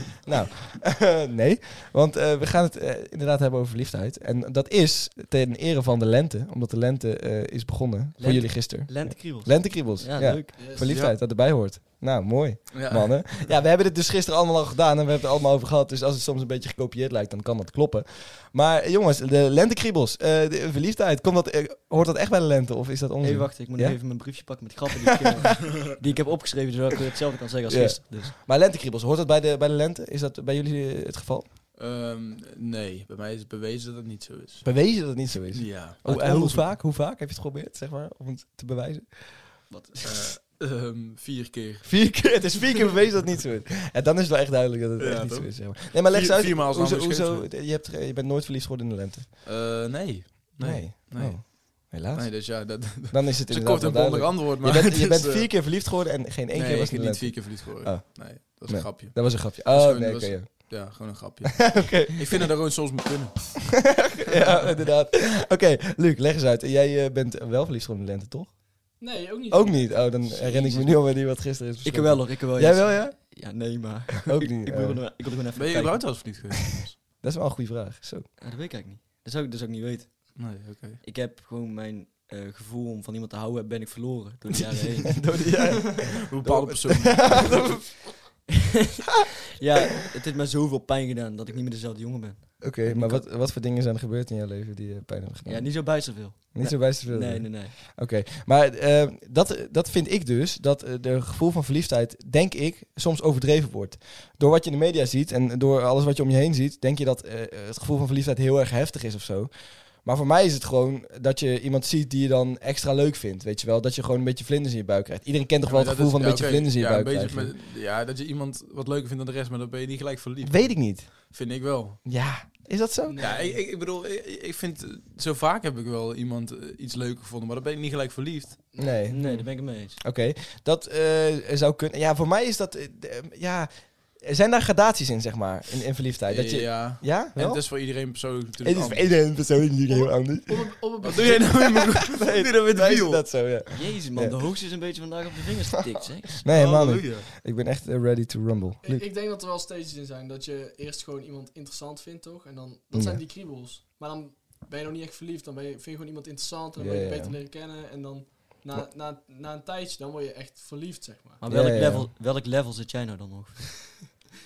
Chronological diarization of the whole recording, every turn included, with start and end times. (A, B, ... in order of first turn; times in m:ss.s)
0:00.2-0:24.0 A
0:08.2-0:10.6 B
0:10.5-0:10.9 C
0:10.9-0:11.2 D
0:12.7-0:13.3 D
0:23.2-0:28.3 B
0:27.7-0:31.5 A
0:31.7-0:36.6 D
0:34.6-0:39.5 A
0:39.7-0:40.0 B
0:40.0-0:41.9 D
0:41.8-0:49.3 A
0:45.0-0:47.5 D
0:49.4-0:55.7 D
0:50.6-1:01.0 A
0:56.5-1:03.9 D
1:01.6-1:02.2 A
1:03.9-1:08.7 A
1:09.0-1:10.9 C
1:09.5-1:13.4 A
1:10.4-1:10.8 D
1:11.8-1:16.3 B
1:14.3-1:15.0 A
1:15.5-1:17.0 D
1:17.2-1:18.3 A
1:18.4-1:25.4 B
1:20.4-1:21.0 D
1:24.5-1:28.0 A
1:26.3-1:27.7 D
1:29.6-1:33.2 B
1:32.6-1:57.5 A
1:35.4-1:37.7 B
1:55.6-2:02.1 D
2:00.4-2:01.5 A
2:02.0-2:03.2 A
2:03.1-2:03.6 C
2:03.2-2:08.7 D
2:08.7-2:09.1 C
2:08.8-2:17.9 A
2:09.1-2:10.0 B
2:16.3-2:19.6 D
2:18.6-2:24.4 A
2:19.9-2:21.6 C
2:21.0-2:23.3 D
2:23.6-2:26.4 B
2:26.3-2:29.1 A
2:26.5-2:27.3 D
2:28.8-2:41.4 C
2:32.9-2:33.2 A
2:36.8-2:37.4 A
2:41.4-2:43.7 B
2:41.4-2:42.1 A
2:43.8-2:44.1 C